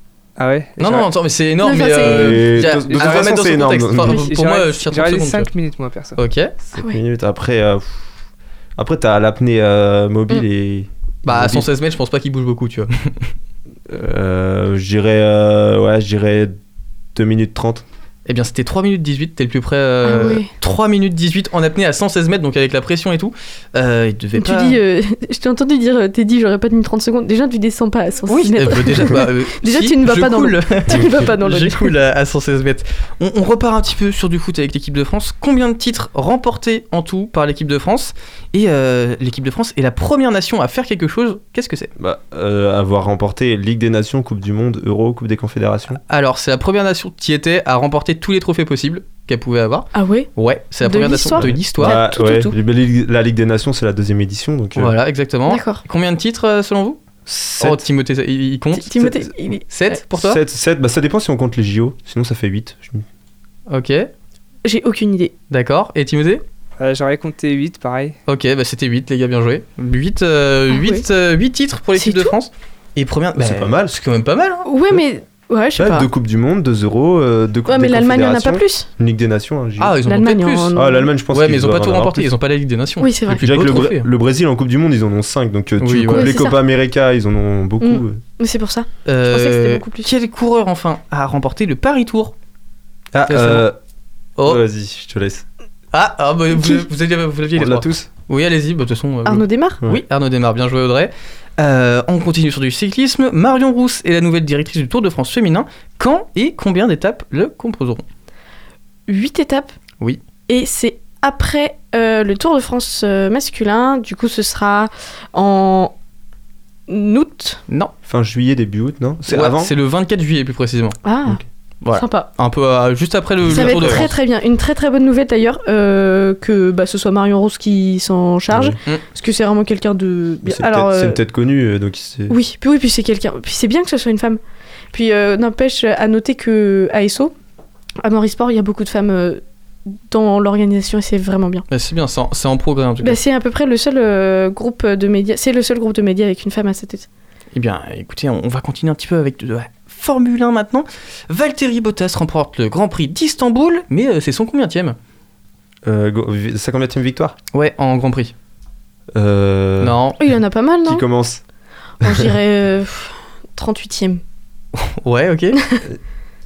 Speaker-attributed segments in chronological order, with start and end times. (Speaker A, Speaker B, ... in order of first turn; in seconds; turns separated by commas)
Speaker A: 0.4-1.1, Speaker B: 0.8-5.5, Speaker C: 1.6-2.4, Speaker D: 2.1-4.2, Speaker A: 2.8-6.2, Speaker B: 6.2-6.5, Speaker D: 6.6-8.1, Speaker D: 8.8-11.7, Speaker B: 11.2-13.3, Speaker D: 13.9-16.6, Speaker D: 17.1-17.8, Speaker B: 18.2-24.8, Speaker C: 20.0-20.5, Speaker C: 24.4-31.9, Speaker B: 28.3-41.9, Speaker D: 30.9-31.2, Speaker D: 42.0-46.0, Speaker B: 46.1-52.0, Speaker C: 49.9-50.3, Speaker C: 50.8-52.5, Speaker D: 51.4-54.9, Speaker B: 54.7-57.0, Speaker C: 55.5-55.8, Speaker D: 57.3-57.9, Speaker B: 57.6-60.4, Speaker C: 58.8-60.0, Speaker D: 60.1-63.0, Speaker B: 63.7-64.1, Speaker C: 64.6-65.3, Speaker B: 65.5-66.4, Speaker A: 66.8-68.2, Speaker B: 68.3-74.6, Speaker C: 70.7-71.0, Speaker C: 72.0-72.3, Speaker D: 73.4-73.9, Speaker C: 74.7-76.1, Speaker D: 75.8-80.0, Speaker C: 77.7-78.9, Speaker B: 79.8-80.7, Speaker C: 80.1-81.1, Speaker D: 80.7-82.3, Speaker B: 81.3-84.1, Speaker C: 83.0-83.4, Speaker D: 83.3-88.2, Speaker B: 85.8-86.3, Speaker C: 86.1-86.6, Speaker C: 87.8-90.1, Speaker B: 89.0-92.3, Speaker D: 93.1-93.7, Speaker B: 93.3-93.7, Speaker D: 94.4-95.5, Speaker B: 95.9-108.0, Speaker C: 96.5-96.8, Speaker D: 97.5-98.1, Speaker C: 99.2-99.8, Speaker C: 109.1-109.7, Speaker C: 110.5-115.9, Speaker C: 116.9-117.6, Speaker D: 118.0-119.7, Speaker B: 119.3-121.0, Speaker C: 121.0-121.4, Speaker B: 121.8-124.1, Speaker C: 121.9-122.3, Speaker D: 123.5-124.1, Speaker C: 123.5-131.2, Speaker D: 128.5-128.8, Speaker D: 130.4-132.3, Speaker C: 132.3-134.4, Speaker C: 134.9-137.3, Speaker C: 138.0-141.6, Speaker B: 141.7-143.2, Speaker C: 143.0-147.1, Speaker B: 147.5-154.9, Speaker D: 155.8-157.3, Speaker B: 157.5-158.3, Speaker D: 159.1-160.0, Speaker B: 159.8-160.2, Speaker C: 160.2-161.0, Speaker D: 160.8-161.4, Speaker C: 162.0-164.2, Speaker B: 164.8-165.6